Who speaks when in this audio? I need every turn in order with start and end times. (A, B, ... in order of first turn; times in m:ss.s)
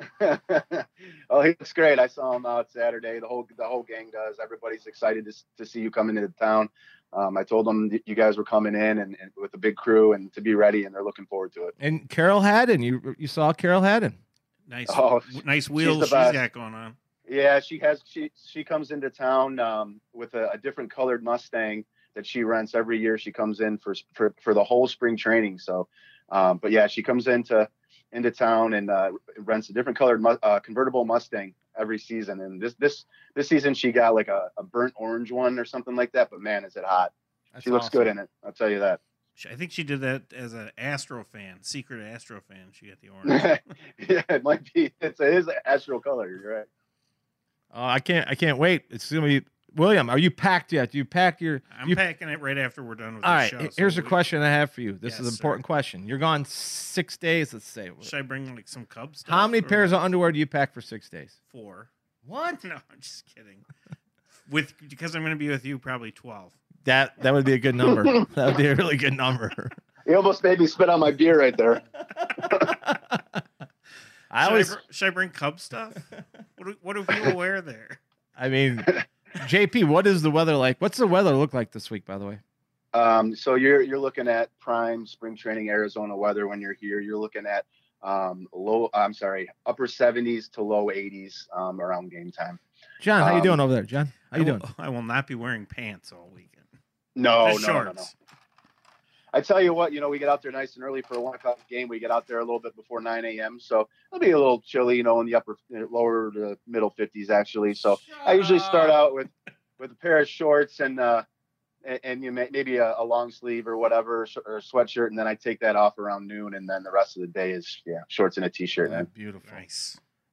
0:00.2-0:11.7 A
0:11.8-0:14.2 B
0:14.7-0:16.9 C
0:14.9-0:16.4 A
0:17.3-0:37.1 A
0:37.5-0:38.1 B
0:37.6-0:39.0 A
0:39.4-0:43.6 C
0:43.2-0:46.7 A
0:47.7-0:52.0 B
0:51.7-0:54.2 C
0:53.2-0:58.1 B
0:55.0-0:55.6 C
0:58.0-0:59.9 C
0:59.2-1:01.4 B
1:01.5-1:01.9 C
1:02.2-1:02.6 B
1:02.6-1:03.6 C
1:04.5-1:06.6 C
1:06.8-1:09.7 B
1:10.0-1:11.8 A
1:12.4-1:13.4 B
1:14.3-1:14.8 B
1:14.4-1:18.0 C
1:18.4-1:22.4 B
1:22.9-1:32.6 A
1:33.0-1:34.6 B
1:33.2-1:33.6 A
1:34.3-1:36.7 C
1:37.2-1:38.1 A
1:37.4-1:38.1 C
1:39.3-1:51.2 A
1:48.0-1:49.0 C
1:51.8-1:59.1 A
1:58.8-1:59.6 B
1:59.4-2:00.0 C